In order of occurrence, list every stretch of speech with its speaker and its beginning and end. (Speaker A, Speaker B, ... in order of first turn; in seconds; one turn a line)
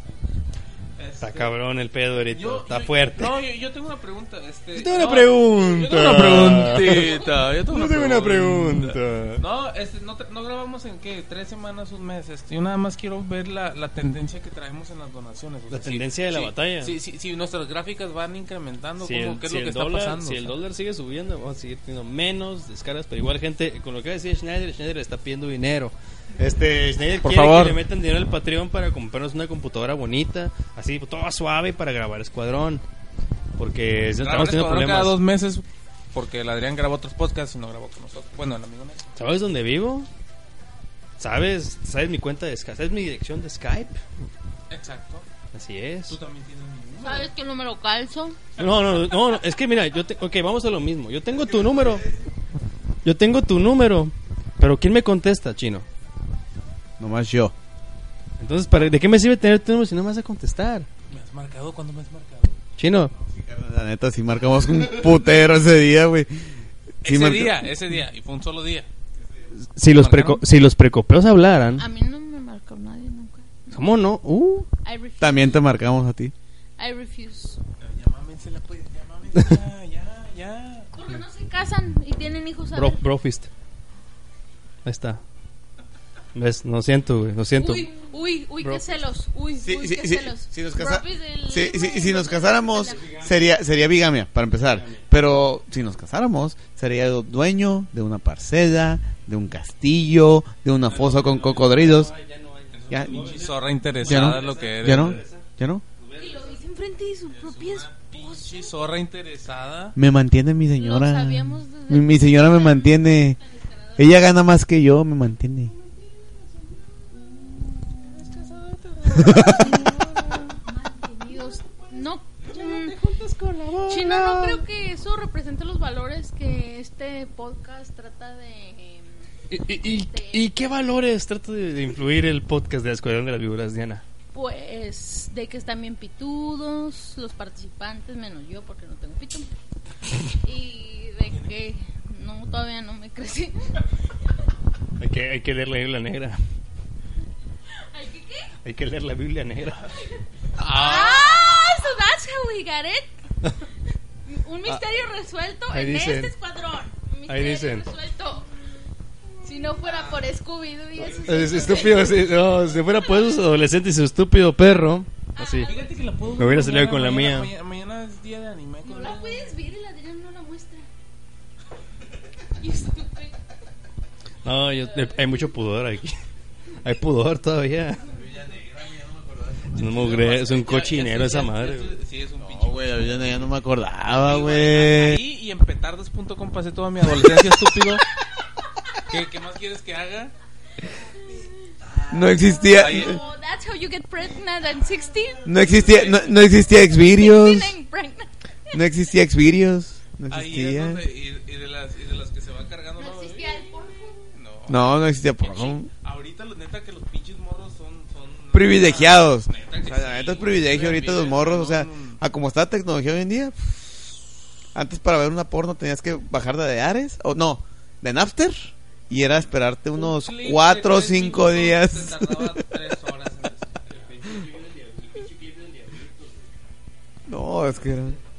Speaker A: 1.0-1.6
Speaker B: 1.2-3.3
Speaker A: 2.3-20.6
Speaker B: 4.8-9.4
Speaker B: 15.7-16.9
Speaker B: 19.0-32.8
Speaker A: 27.2-27.8
Speaker B: 33.6-35.2
Speaker A: 34.2-39.1
Speaker B: 39.2-40.1
Speaker B: 41.2-44.0
Speaker A: 44.7-45.3
Speaker B: 45.5-46.2
Speaker A: 46.1-47.3
Speaker C: 47.0-48.4
Speaker B: 48.6-52.1
Speaker D: 51.3-52.3
Speaker B: 53.0-55.9
Speaker D: 57.0-57.5
Speaker B: 58.4-60.9
Speaker A: 61.1-62.6
Speaker B: 62.8-63.1
Speaker D: 63.2-67.7
Speaker A: 67.0-68.9
Speaker D: 69.2-69.5
Speaker B: 69.8-71.8
Speaker A: 69.9-70.4
Speaker C: 71.8-73.5
Speaker B: 73.7-74.7
Speaker C: 74.8-75.6
Speaker D: 75.2-76.3
Speaker C: 76.8-77.6
Speaker A: 77.8-80.9
Speaker C: 80.9-83.0
Speaker B: 82.7-83.5
Speaker B: 84.8-85.2
Speaker B: 86.3-87.9
Speaker C: 87.6-93.0
Speaker D: 89.6-102.1
Speaker B: 92.8-93.5
Speaker B: 94.7-95.1
Speaker B: 100.8-106.6
Speaker A: 102.7-105.2
Speaker D: 102.9-103.3
Speaker D: 104.0-105.8
Speaker C: 106.2-108.7
Speaker A: 107.3-110.0
Speaker D: 110.0-113.4
Speaker C: 110.8-114.2
Speaker D: 114.0-115.7
Speaker B: 115.7-117.0
Speaker B: 118.2-120.5
Speaker A: 118.3-120.0
Speaker D: 119.2-119.7
Speaker C: 120.6-122.9
Speaker B: 122.5-124.7
Speaker C: 123.9-130.9
Speaker B: 129.5-134.0
Speaker C: 134.3-139.5
Speaker C: 140.4-143.8
Speaker B: 145.0-146.4
Speaker C: 147.9-148.5
Speaker B: 148.6-149.9
Speaker A: 150.6-151.6
Speaker C: 150.6-153.1
Speaker C: 154.2-158.5
Speaker B: 155.7-156.3
Speaker B: 157.3-157.9
Speaker C: 159.4-163.4
Speaker A: 159.8-160.2
Speaker B: 161.0-165.7
Speaker C: 165.3-166.2
Speaker A: 165.6-169.6
Speaker B: 166.4-167.5
Speaker C: 168.8-170.9
Speaker C: 172.6-173.4
Speaker B: 174.4-176.2
Speaker C: 174.8-175.5
Speaker B: 176.8-178.0
Speaker D: 178.1-180.1
Speaker B: 179.7-181.9
Speaker A: 179.9-183.4
Speaker D: 182.4-185.2
Speaker A: 184.1-188.0
Speaker A: 189.0-190.3
Speaker D: 192.1-193.2
Speaker A: 192.7-193.2
Speaker C: 192.7-195.4
Speaker D: 195.4-197.8
Speaker A: 195.6-196.6
Speaker C: 196.9-198.8
Speaker D: 198.7-201.0
Speaker A: 200.3-203.8
Speaker C: 203.0-204.3
Speaker A: 204.3-212.2
Speaker D: 204.7-205.9
Speaker D: 208.5-214.1
Speaker D: 214.8-222.7
Speaker A: 219.9-223.8
Speaker B: 223.8-226.5
Speaker D: 227.3-228.2
Speaker B: 227.9-228.2